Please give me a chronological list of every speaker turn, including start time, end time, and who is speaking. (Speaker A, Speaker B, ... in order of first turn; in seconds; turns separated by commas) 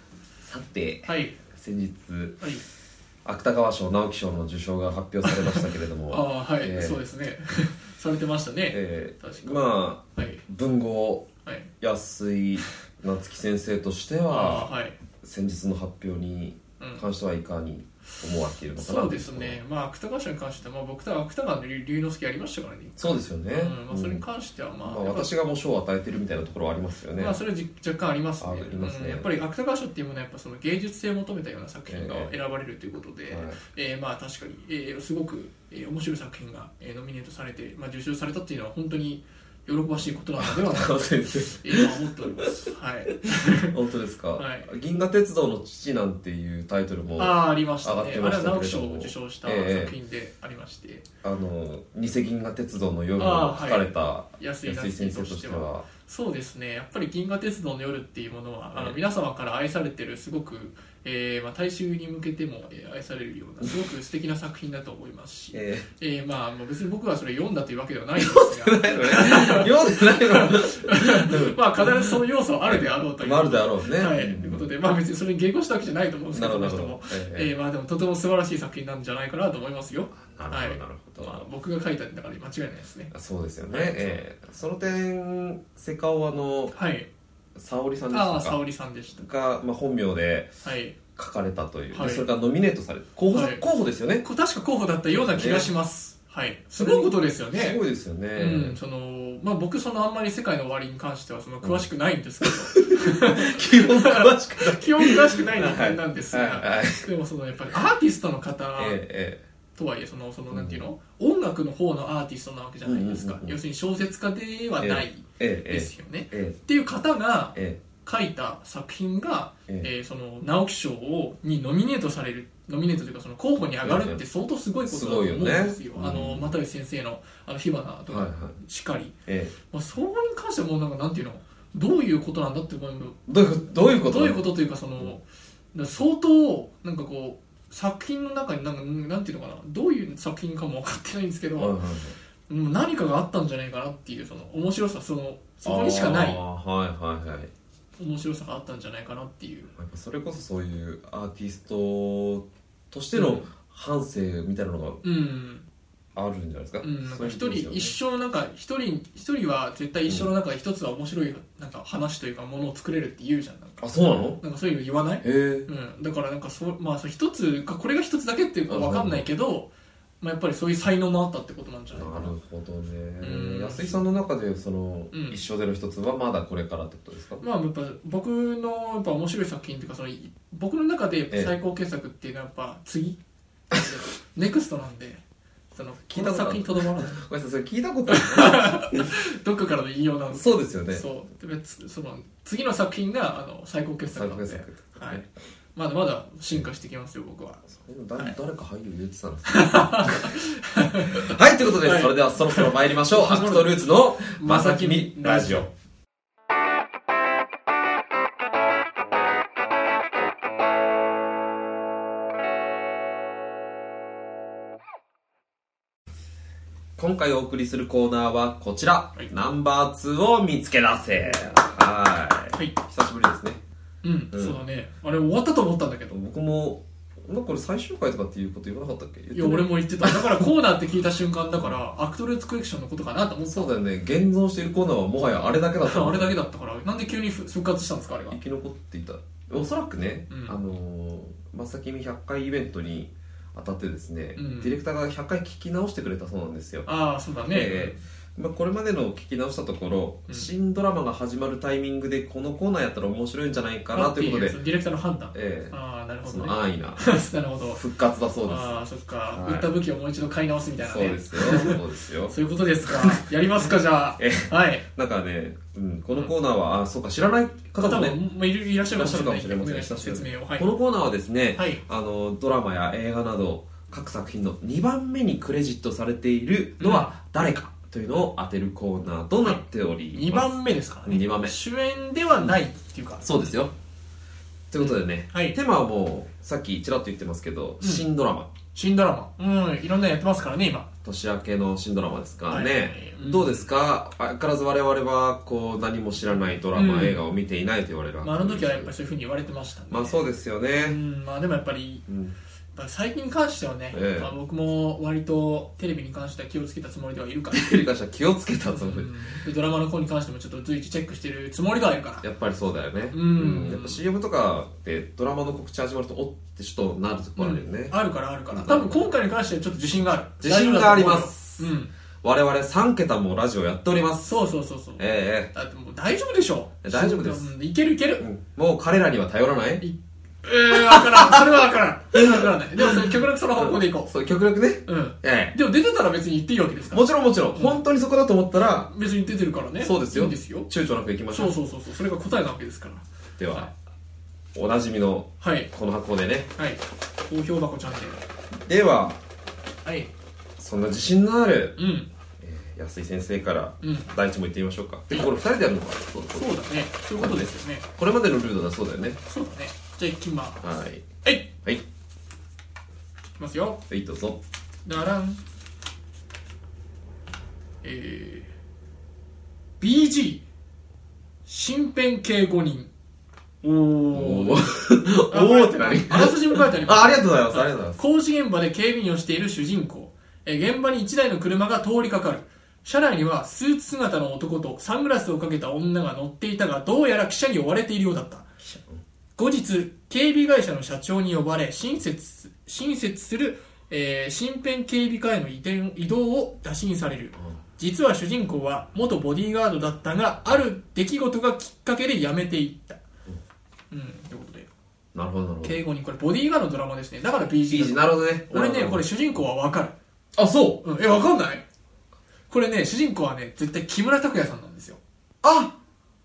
Speaker A: 0.5-2.4, Speaker B: 1.1-1.4, Speaker A: 3.2-7.0, Speaker B: 5.2-9.6, Speaker A: 8.7-11.3, Speaker B: 10.2-10.4, Speaker A: 11.8-19.6, Speaker B: 14.3-15.0, Speaker B: 18.8-25.3, Speaker A: 23.0-24.2, Speaker A: 24.9-27.4, Speaker B: 27.2-43.8, Speaker A: 28.4-29.3, Speaker A: 31.9-32.3, Speaker A: 33.3-33.6, Speaker A: 40.4-42.6, Speaker A: 43.2-49.9, Speaker B: 44.4-44.7, Speaker B: 47.2-51.0, Speaker A: 51.2-55.9, Speaker B: 53.2-53.8, Speaker B: 54.4-83.1, Speaker A: 65.5-65.9, Speaker A: 68.2-72.2, Speaker A: 72.7-74.7, Speaker A: 76.3-77.5, Speaker A: 80.2-81.5, Speaker A: 83.1-86.7, Speaker B: 83.7-84.2, Speaker B: 86.7-87.1, Speaker A: 87.6-88.6, Speaker B: 88.1-89.2, Speaker A: 89.2-90.5, Speaker B: 90.6-91.0, Speaker A: 91.2-94.2, Speaker B: 91.9-92.3, Speaker B: 93.3-93.7, Speaker B: 94.2-97.8, Speaker A: 95.1-95.7, Speaker A: 96.8-98.8, Speaker B: 98.4-109.0, Speaker A: 102.4-107.1, Speaker A: 108.8-109.4, Speaker B: 109.8-129.1, Speaker A: 110.5-110.8, Speaker A: 112.8-113.6, Speaker A: 114.8-116.6, Speaker A: 117.5-117.8, Speaker A: 123.8-124.2, Speaker A: 124.9-126.5, Speaker A: 128.1-128.6, Speaker A: 129.3-129.5, Speaker B: 129.7-133.2, Speaker A: 133.3-134.4, Speaker B: 134.0-135.2, Speaker B: 135.7-141.8, Speaker A: 141.6-142.2, Speaker B: 142.5-146.4, Speaker A: 145.6-147.5, Speaker B: 148.0-149.7, Speaker A: 149.7-155.0, Speaker B: 153.1-153.5, Speaker B: 155.0-155.7, Speaker A: 156.2-157.9, Speaker B: 156.8-163.8, Speaker A: 163.8-164.4, Speaker B: 164.4-172.3, Speaker A: 165.2-165.7, Speaker A: 168.7-169.2, Speaker A: 171.9-177.4, Speaker B: 173.2-174.1, Speaker B: 175.1-175.4, Speaker B: 177.4-183.2, Speaker B: 183.7-185.2, Speaker B: 185.7-187.2, Speaker A: 186.1-189.1, Speaker B: 188.1-195.2, Speaker A: 190.3-191.0, Speaker A: 194.1-195.3, Speaker B: 195.8-197.7, Speaker A: 197.7-200.4, Speaker B: 199.5-203.8, Speaker A: 201.1-205.7, Speaker B: 204.3-205.7, Speaker A: 217.0-223.6, Speaker B: 224.0-226.2, Speaker A: 224.3-224.6, Speaker A: 226.1-230.4, Speaker B: 229.3-233.8, Speaker A: 233.5-236.3, Speaker B: 235.8-238.4, Speaker A: 238.3-246.9, Speaker B: 240.3-240.6, Speaker B: 244.4-244.8, Speaker B: 246.9-248.0, Speaker A: 247.5-254.6, Speaker B: 253.9-257.8, Speaker A: 255.3-255.7, Speaker A: 256.2-257.1, Speaker A: 257.8-258.8, Speaker B: 258.5-261.8, Speaker A: 259.3-259.7, Speaker A: 260.8-268.2, Speaker B: 262.3-264.9, Speaker B: 267.8-270.7, Speaker A: 268.9-280.6, Speaker B: 271.6-271.8, Speaker B: 276.8-277.1, Speaker B: 279.4-283.3, Speaker A: 281.1-281.5, Speaker A: 283.2-283.7, Speaker A: 284.7-288.5, Speaker B: 284.8-285.6, Speaker B: 287.8-288.1, Speaker B: 288.7-290.9, Speaker A: 291.0-298.9, Speaker B: 292.5-293.7, Speaker B: 296.7-297.2, Speaker B: 298.2-300.2, Speaker A: 299.9-301.0, Speaker B: 300.8-302.1, Speaker A: 302.1-302.4, Speaker B: 302.8-307.7, Speaker A: 303.9-304.3, Speaker A: 307.5-309.1, Speaker B: 308.7-312.3, Speaker A: 312.2-317.9, Speaker B: 313.1-314.0, Speaker B: 317.4-321.9, Speaker A: 318.5-319.1, Speaker A: 320.4-321.7, Speaker A: 322.2-324.4, Speaker B: 324.2-328.3, Speaker A: 325.0-325.5, Speaker A: 326.8-327.5, Speaker A: 328.2-329.8, Speaker B: 329.8-334.1, Speaker A: 330.8-331.5, Speaker A: 332.1-335.6, Speaker B: 334.9-337.8, Speaker A: 336.9-338.9, Speaker B: 338.8-340.7, Speaker A: 339.8-341.6, Speaker B: 341.3-343.7, Speaker A: 343.4-343.7, Speaker A: 344.6-346.5, Speaker B: 345.4-345.7, Speaker B: 346.6-348.2, Speaker A: 348.7-349.2, Speaker B: 349.9-350.1, Speaker A: 350.6-351.8, Speaker B: 351.8-352.1, Speaker A: 352.4-356.5, Speaker B: 353.8-354.1, Speaker B: 356.3-357.9, Speaker A: 357.2-359.2, Speaker B: 359.2-360.6, Speaker A: 360.6-361.1, Speaker B: 361.2-361.5, Speaker B: 363.4-363.8, Speaker A: 363.9-364.4, Speaker B: 364.9-365.4, Speaker B: 367.8-368.5, Speaker B: 369.8-370.4, Speaker B: 371.5-372.9, Speaker B: 373.6-388.8, Speaker A: 374.1-378.0, Speaker B: 389.4-403.0, Speaker B: 403.9-404.7, Speaker A: 405.1-405.8, Speaker B: 405.6-409.9, Speaker A: 407.7-409.1, Speaker A: 410.4-410.8, Speaker B: 410.8-411.6, Speaker B: 412.5-415.0, Speaker A: 415.4-415.8